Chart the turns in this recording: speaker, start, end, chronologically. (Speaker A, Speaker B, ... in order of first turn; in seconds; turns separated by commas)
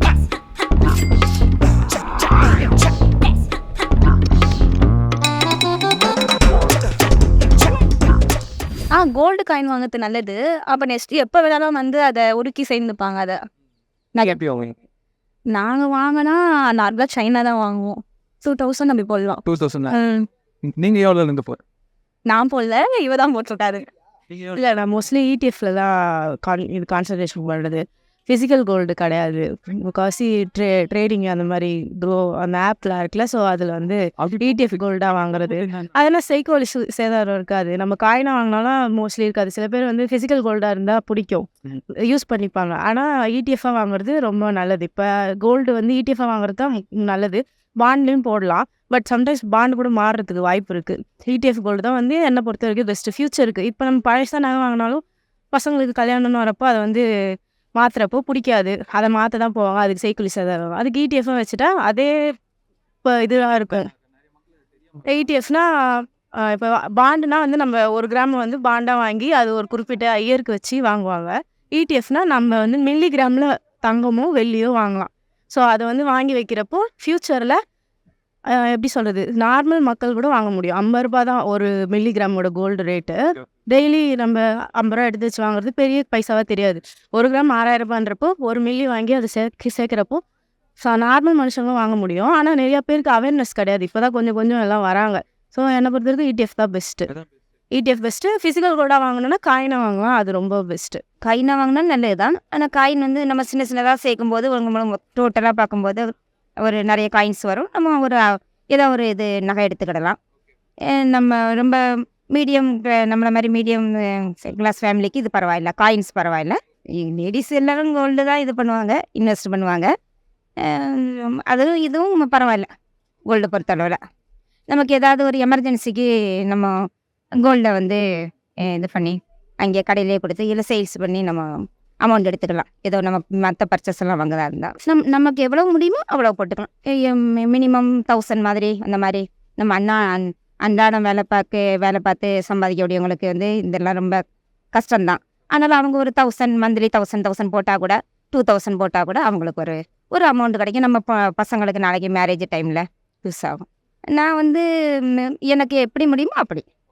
Speaker A: 8.9-13.4, Speaker B: 14.2-14.7, Speaker A: 15.5-20.2, Speaker B: 19.5-19.9, Speaker B: 20.6-21.6, Speaker A: 22.3-23.9, Speaker B: 24.3-24.6, Speaker C: 24.6-57.0, Speaker B: 34.2-34.7, Speaker B: 35.4-35.9, Speaker C: 57.8-62.1, Speaker C: 63.0-63.9, Speaker C: 65.1-77.6, Speaker C: 78.5-90.2, Speaker C: 90.8-97.1, Speaker C: 97.7-101.0, Speaker D: 101.2-106.1, Speaker D: 106.6-110.2, Speaker D: 110.9-119.9, Speaker D: 120.6-122.7, Speaker D: 123.3-124.0, Speaker D: 124.7-126.7, Speaker D: 127.3-128.0, Speaker D: 128.6-144.2, Speaker D: 144.7-156.6